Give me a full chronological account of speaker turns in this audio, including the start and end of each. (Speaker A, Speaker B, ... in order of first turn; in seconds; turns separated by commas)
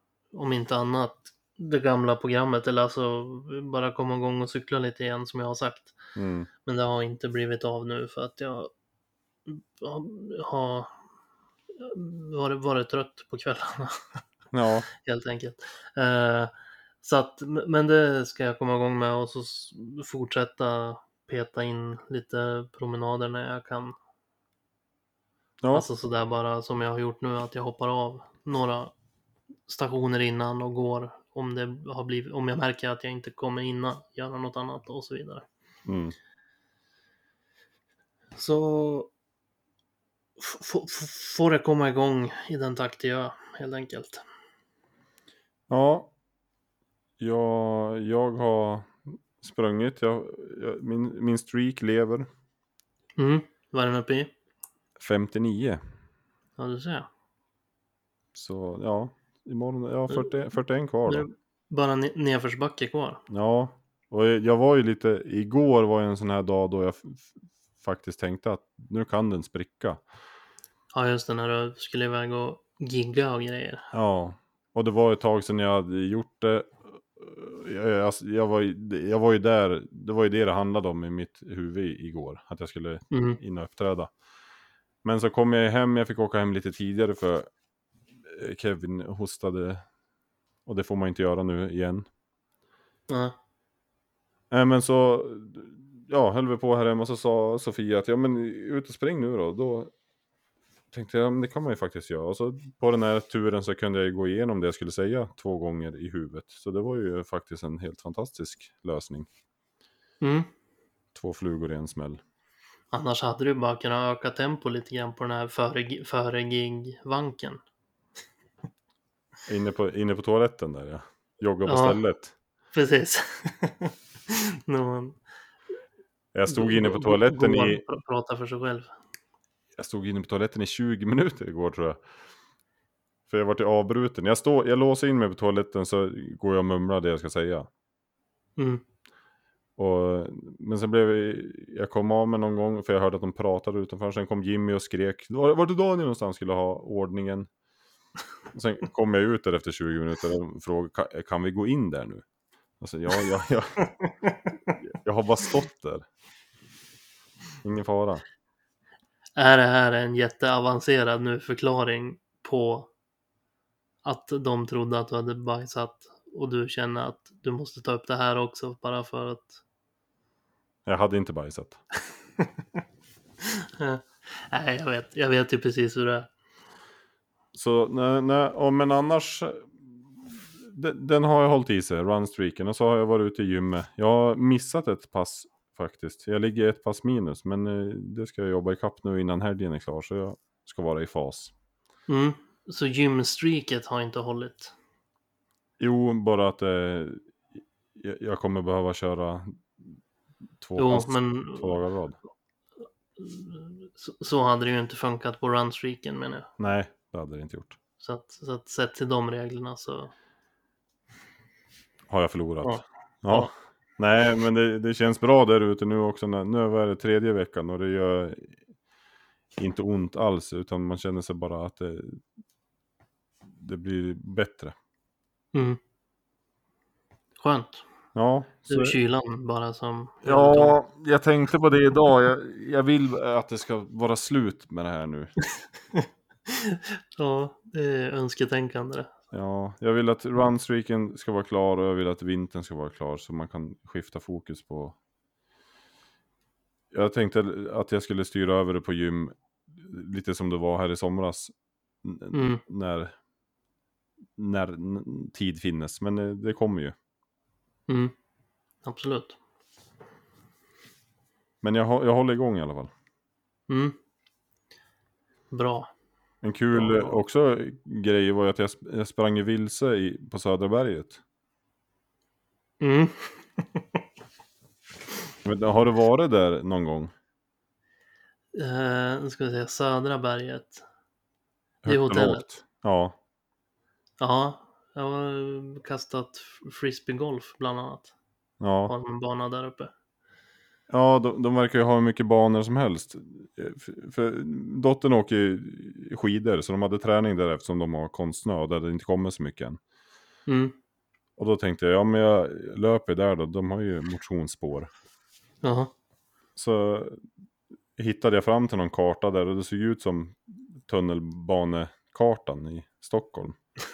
Speaker A: 0.3-5.9, Speaker B: 6.2-6.5, Speaker A: 6.6-8.7, Speaker A: 9.5-10.9, Speaker A: 11.8-14.0, Speaker B: 14.5-14.9, Speaker A: 15.0-23.9, Speaker B: 25.6-25.9, Speaker A: 25.7-28.9, Speaker A: 29.7-35.5, Speaker B: 35.9-36.1, Speaker A: 38.4-39.1, Speaker A: 40.4-44.2, Speaker B: 45.7-46.1, Speaker B: 47.2-52.3, Speaker A: 53.2-54.3, Speaker B: 55.0-55.8, Speaker A: 56.6-57.1, Speaker B: 58.3-61.2, Speaker A: 61.1-63.2, Speaker B: 63.3-70.0, Speaker A: 70.9-73.9, Speaker B: 73.9-84.1, Speaker A: 83.1-83.4, Speaker B: 85.0-87.5, Speaker B: 88.2-89.8, Speaker B: 90.7-92.0, Speaker A: 93.1-93.3, Speaker B: 94.5-99.9, Speaker B: 100.9-109.3, Speaker A: 110.2-110.5, Speaker B: 111.1-112.2, Speaker A: 112.9-117.6, Speaker B: 119.5-122.3, Speaker A: 121.7-122.0, Speaker A: 122.7-125.2, Speaker B: 126.3-127.8, Speaker A: 126.5-128.9, Speaker B: 129.8-132.0, Speaker B: 133.3-137.7, Speaker A: 138.6-138.8, Speaker B: 139.8-147.5, Speaker B: 148.5-152.2, Speaker B: 152.8-153.9, Speaker B: 154.8-156.1, Speaker B: 157.6-158.2, Speaker A: 159.3-162.9, Speaker A: 164.0-169.6, Speaker B: 170.8-171.8, Speaker A: 173.4-176.3, Speaker B: 177.5-179.9, Speaker B: 180.6-191.5, Speaker A: 192.1-194.7, Speaker B: 195.8-197.2, Speaker B: 197.9-199.8, Speaker B: 200.6-202.2, Speaker A: 200.8-201.8, Speaker A: 203.2-206.5, Speaker B: 206.6-207.8, Speaker A: 208.0-210.1, Speaker B: 212.1-218.6, Speaker A: 212.6-213.5, Speaker B: 219.6-222.2, Speaker B: 223.5-224.7, Speaker A: 225.5-225.8, Speaker A: 227.4-227.8, Speaker B: 228.1-229.0, Speaker A: 228.7-230.8, Speaker B: 230.2-235.3, Speaker A: 236.5-239.1, Speaker B: 239.3-244.9, Speaker B: 246.9-253.1, Speaker A: 252.3-252.6, Speaker B: 254.4-256.9, Speaker A: 257.9-258.1, Speaker A: 258.8-259.4, Speaker B: 261.6-262.9, Speaker A: 263.7-263.9, Speaker A: 265.5-265.9, Speaker B: 266.4-271.2, Speaker A: 266.7-267.1, Speaker A: 272.8-273.8, Speaker B: 275.4-277.1, Speaker A: 278.5-280.8, Speaker B: 281.8-283.1, Speaker A: 281.9-282.5, Speaker A: 284.2-288.1, Speaker B: 288.6-288.9, Speaker A: 288.9-289.9, Speaker B: 290.9-299.8, Speaker A: 300.5-300.7, Speaker B: 301.4-304.9, Speaker A: 305.6-305.9, Speaker B: 306.6-307.2, Speaker B: 308.0-313.6